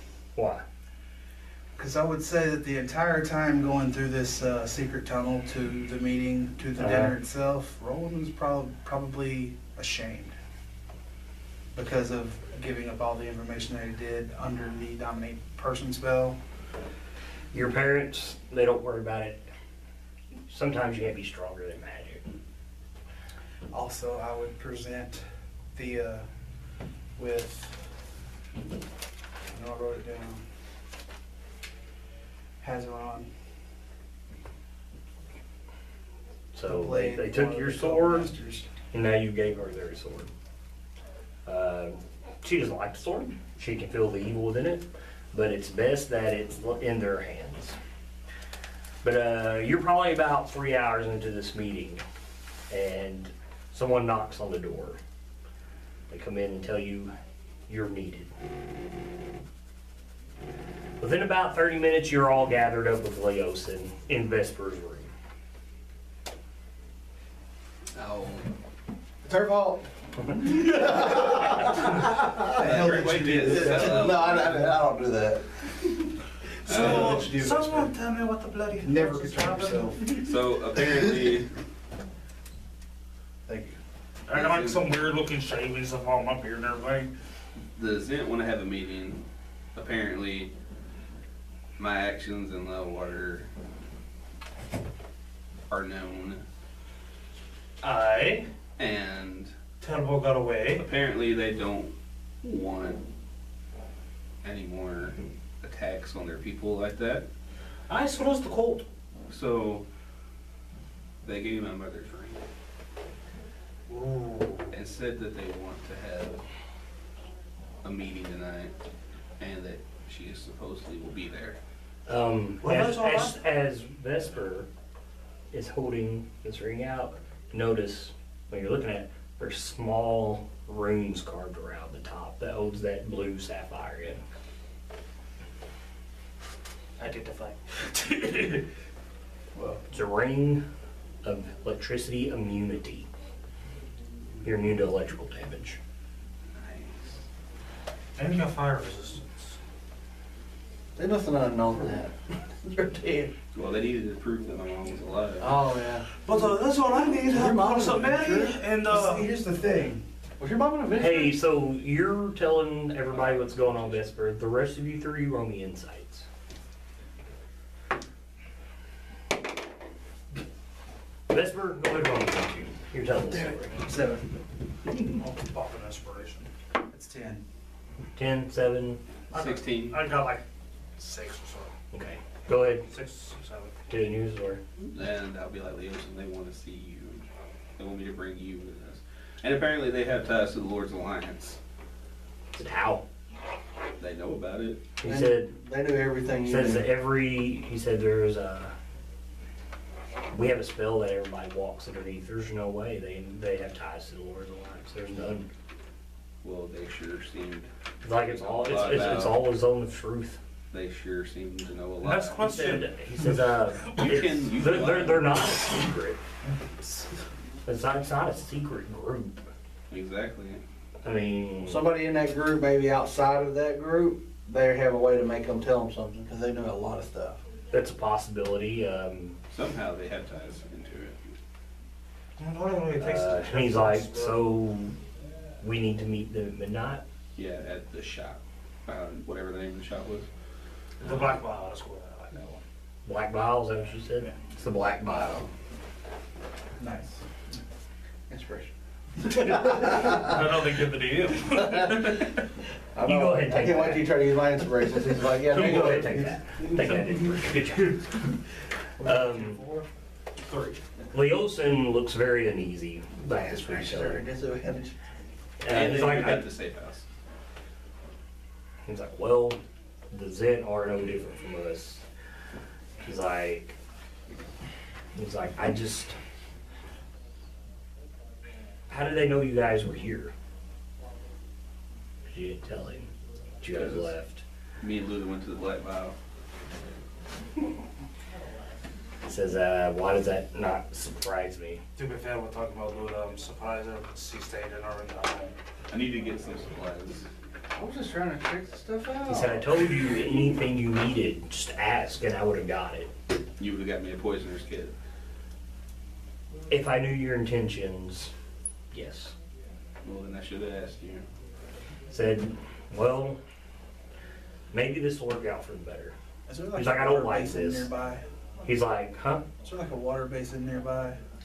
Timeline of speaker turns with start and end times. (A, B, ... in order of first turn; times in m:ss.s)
0:00.4-0:00.6 A
0:01.8-0:10.4 B
0:06.8-0:07.2 A
0:11.7-0:16.4 B
0:17.5-0:19.4 A
0:20.5-0:22.2 A
0:23.7-0:26.3 B
0:27.2-0:27.8 B
0:29.5-0:30.4 B
0:32.6-0:33.3 B
0:36.5-0:38.3 A
0:36.6-0:38.7 B
0:38.9-0:40.3 A
0:41.5-0:47.8 A
0:49.0-0:52.0 A
0:52.7-0:55.0 A
0:56.1-0:57.1 A
0:57.7-0:58.3 A
1:01.0-1:05.1 A
1:08.0-1:08.4 C
1:09.2-1:16.1 D
1:10.2-1:10.7 A
1:12.4-1:14.2 B
1:12.5-1:14.6 C
1:16.6-1:17.9 B
1:16.7-1:17.3 C
1:16.7-1:20.2 E
1:18.8-1:20.2 B
1:20.2-1:21.5 C
1:23.5-1:23.7 B
1:24.3-1:27.1 E
1:24.3-1:24.8 C
1:27.8-1:29.2 C
1:29.8-1:30.5 C
1:31.8-1:33.5 C
1:35.7-1:36.4 C
1:37.8-1:38.5 E
1:38.8-1:39.5 C
1:39.8-1:40.9 E
1:40.8-1:43.0 C
1:44.4-1:47.2 C
1:47.9-1:48.9 E
1:49.3-1:49.8 C
1:51.2-1:52.4 C
1:53.9-1:54.7 E
1:54.7-1:56.4 C
1:57.8-1:58.7 C
1:59.4-2:01.6 C
2:02.1-2:04.7 A
2:02.6-2:03.4 E
2:05.5-2:14.2 A
2:17.0-2:18.7 E
2:19.6-2:19.8 B
2:19.9-2:20.7 A
2:21.2-2:23.1 A
2:24.4-2:25.8 A
2:28.2-2:29.5 E
2:31.0-2:33.3 D
2:33.6-2:35.6 C
2:35.4-2:36.1 D
2:36.1-2:39.3 E
2:37.2-2:38.6 D
2:38.8-2:40.0 B
2:40.4-2:41.4 D
2:41.0-2:46.3 A
2:51.3-2:53.7 A
2:53.3-2:54.3 B
2:55.2-2:56.5 E
2:56.9-2:57.4 B
2:58.2-2:59.0 A
2:59.3-3:00.0 C
2:59.3-3:00.4 E
3:01.0-3:01.7 E
3:01.9-3:02.9 A
3:02.8-3:03.8 E
3:03.9-3:04.6 A
3:04.9-3:07.2 C
3:07.8-3:11.6 C
3:12.5-3:13.0 A
3:14.0-3:14.8 C
3:15.0-3:15.5 A
3:15.0-3:16.9 D
3:16.4-3:18.8 A
3:20.3-3:25.5 A
3:26.4-3:29.4 C
3:28.0-3:30.4 A
3:30.7-3:32.5 C
3:32.0-3:34.2 E
3:32.4-3:36.2 A
3:33.9-3:35.4 C
3:37.6-3:39.4 A
3:39.9-3:40.6 C
3:41.0-3:41.9 A
3:41.6-3:47.4 D
3:47.7-3:49.4 A
3:49.5-3:51.3 C
3:52.4-3:54.4 E
3:53.0-3:55.0 A
3:55.6-3:57.0 A
3:57.4-4:00.3 C
4:01.0-4:02.6 E
4:03.0-4:05.5 A
4:06.8-4:07.2 B
4:08.3-4:08.7 D
4:09.5-4:12.4 E
4:09.6-4:10.3 D
4:11.6-4:12.1 D
4:13.0-4:16.8 D
4:13.0-4:14.1 A
4:15.4-4:18.2 A
4:19.0-4:19.6 A
4:19.0-4:19.9 B
4:21.1-4:24.2 A
4:23.3-4:25.0 D
4:25.6-4:26.5 A
4:25.7-4:27.0 C
4:28.9-4:29.6 A
4:30.1-4:32.0 A
4:33.0-4:33.8 A
4:35.2-4:36.2 A
4:38.9-4:40.3 A
4:42.3-4:43.1 A
4:43.6-4:44.4 A
4:43.7-4:44.1 C
4:44.8-4:46.2 C
4:49.2-4:51.8 A
4:52.0-4:55.6 E
4:55.9-4:57.3 C
4:57.8-4:59.7 D
4:59.3-5:03.1 A
5:03.6-5:04.9 C
5:06.7-5:08.3 A
5:08.9-5:09.4 A
5:10.0-5:11.2 C
5:12.1-5:13.4 A
5:14.7-5:16.2 A
5:16.5-5:18.2 B
5:16.8-5:17.9 A
5:18.6-5:19.5 A
5:19.6-5:21.2 B